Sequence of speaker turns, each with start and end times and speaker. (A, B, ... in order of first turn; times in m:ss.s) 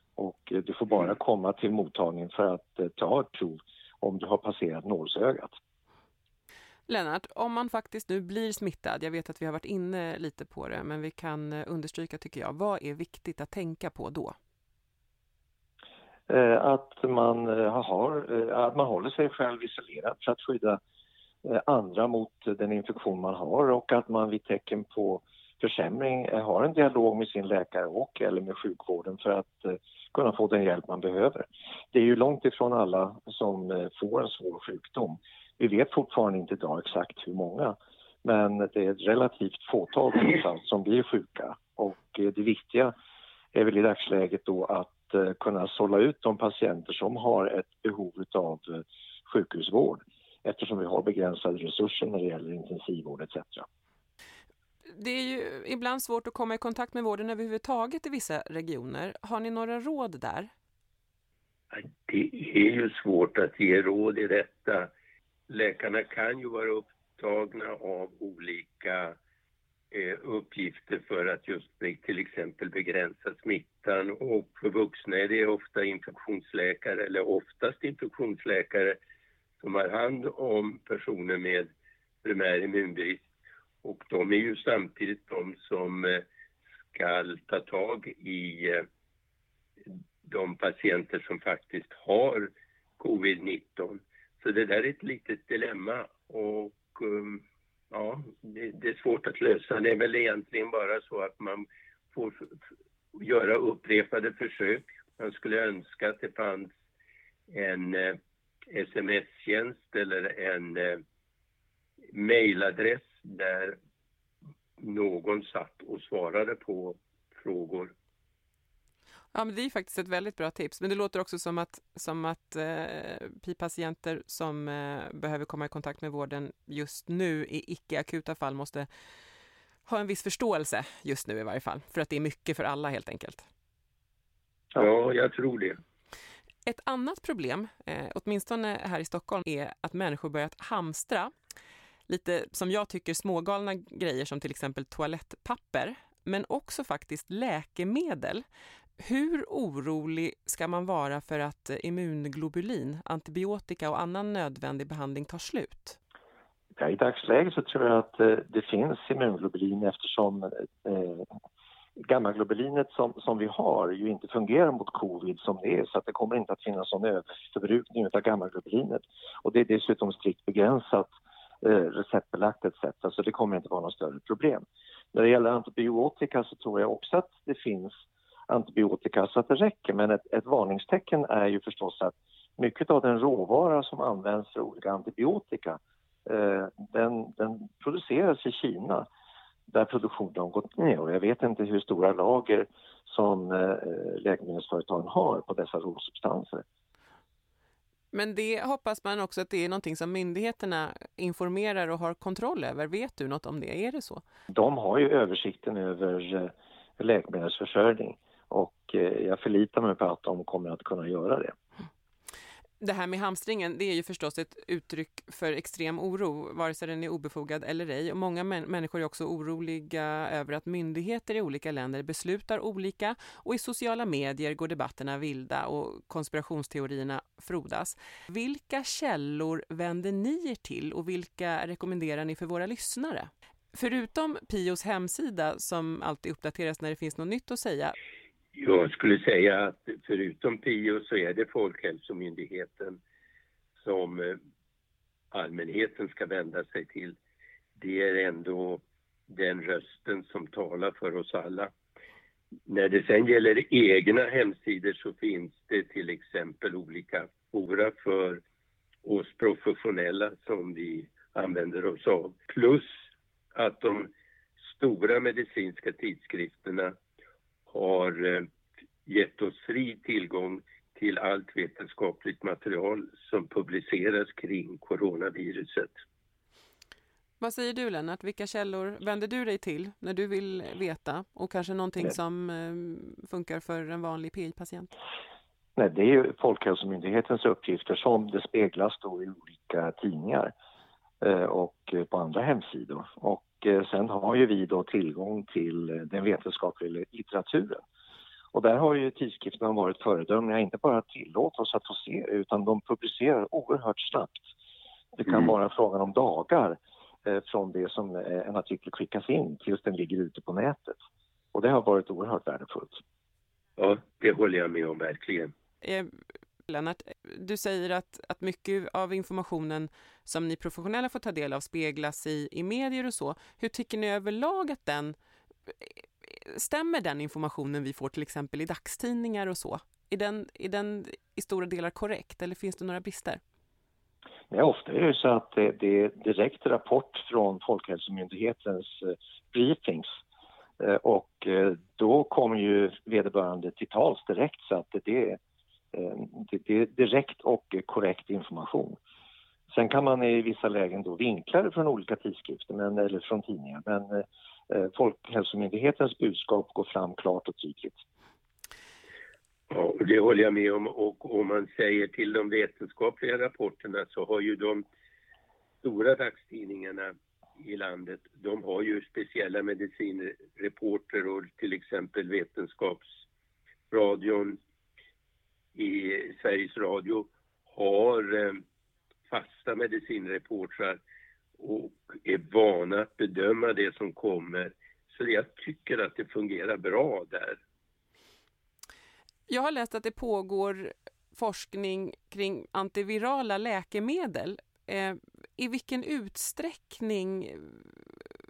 0:00.2-0:05.5 A
0:06.9-0:14.3 B
0:16.3-0:20.8 A
0:21.4-0:42.9 A
0:43.5-0:53.7 A
0:54.9-1:00.5 B
1:01.7-1:04.9 C
1:05.5-1:09.2 C
1:09.9-1:19.0 C
1:19.6-1:21.7 C
1:22.2-1:23.3 C
1:23.8-1:26.2 C
1:26.9-1:28.9 C
1:30.2-1:42.6 C
1:43.1-1:46.7 C
1:47.5-1:48.2 C
1:48.7-1:51.0 C
1:52.1-1:53.8 C
1:54.8-1:57.9 C
1:59.3-2:08.9 B
2:09.8-2:13.5 B
2:14.7-2:15.8 C
2:16.6-2:21.3 B
2:22.1-2:28.4 B
2:29.0-2:36.0 B
2:36.8-2:41.3 A
2:42.0-3:09.1 A
3:09.7-3:16.6 A
3:18.1-3:24.2 B
3:24.5-3:31.5 A
3:32.8-3:57.9 B
3:58.5-4:03.0 C
4:03.8-4:04.4 C
4:05.3-4:07.2 C
4:07.8-4:11.7 C
4:12.7-4:18.4 C
4:19.0-4:22.9 C
4:23.5-4:24.1 C
4:24.7-4:26.9 C
4:27.7-4:28.5 C
4:29.0-4:35.9 C
4:37.4-4:44.9 B
4:45.8-4:50.5 A
4:51.2-4:57.8 A
4:58.5-5:04.4 A
5:05.2-5:11.0 A
5:11.5-5:13.0 A
5:13.8-5:15.5 C
5:15.8-5:16.1 B
5:16.6-5:25.2 B
5:25.7-5:33.4 B
5:34.5-5:40.2 A
5:40.8-5:45.4 A
5:45.9-5:49.0 A
5:49.7-5:58.0 A
5:59.7-6:04.8 C
6:05.8-6:13.1 C
6:13.9-6:14.6 C
6:15.7-6:18.6 C
6:19.3-6:21.0 C
6:21.6-6:27.6 C
6:29.5-6:38.2 B